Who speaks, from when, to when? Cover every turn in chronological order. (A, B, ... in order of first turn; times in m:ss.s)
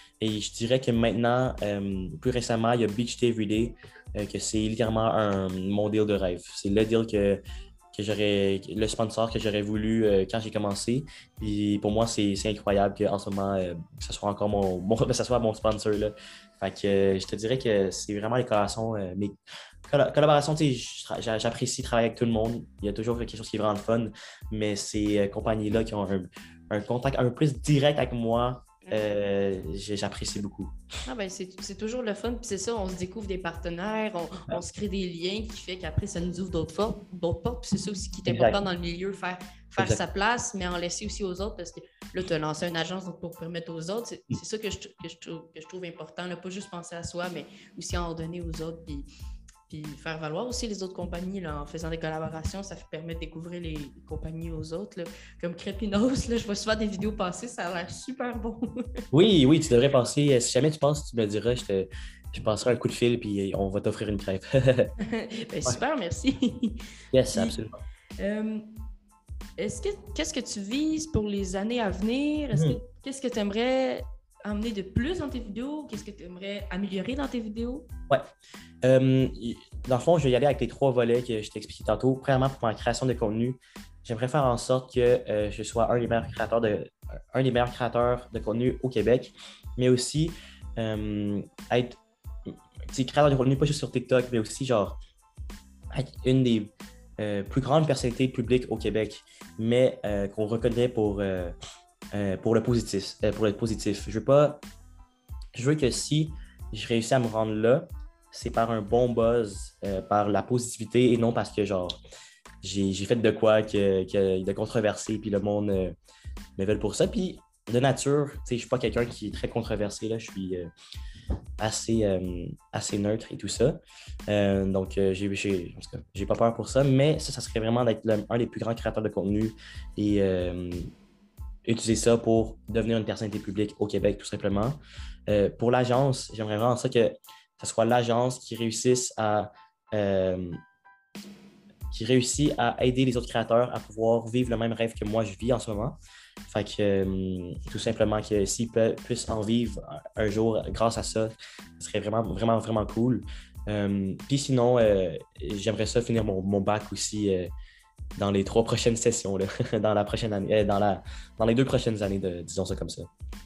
0:00.2-0:07.4 A
0:07.9-0:30.7 A
0:31.1-0:49.1 B
0:38.3-0:38.6 A
0:49.7-0:58.8 B
0:59.1-1:04.9 A
1:05.0-1:06.8 B
1:07.1-1:07.8 A
1:08.2-1:08.7 B
1:09.6-1:17.9 B
1:12.5-1:12.8 A
1:18.8-1:35.0 A
1:35.9-1:41.6 A
1:42.1-1:44.6 A
1:45.6-1:52.0 A
1:52.6-1:56.0 A
1:56.6-2:00.7 A
2:01.6-2:10.9 A
2:11.7-2:20.6 A
2:21.9-2:37.5 A
2:38.2-2:43.1 A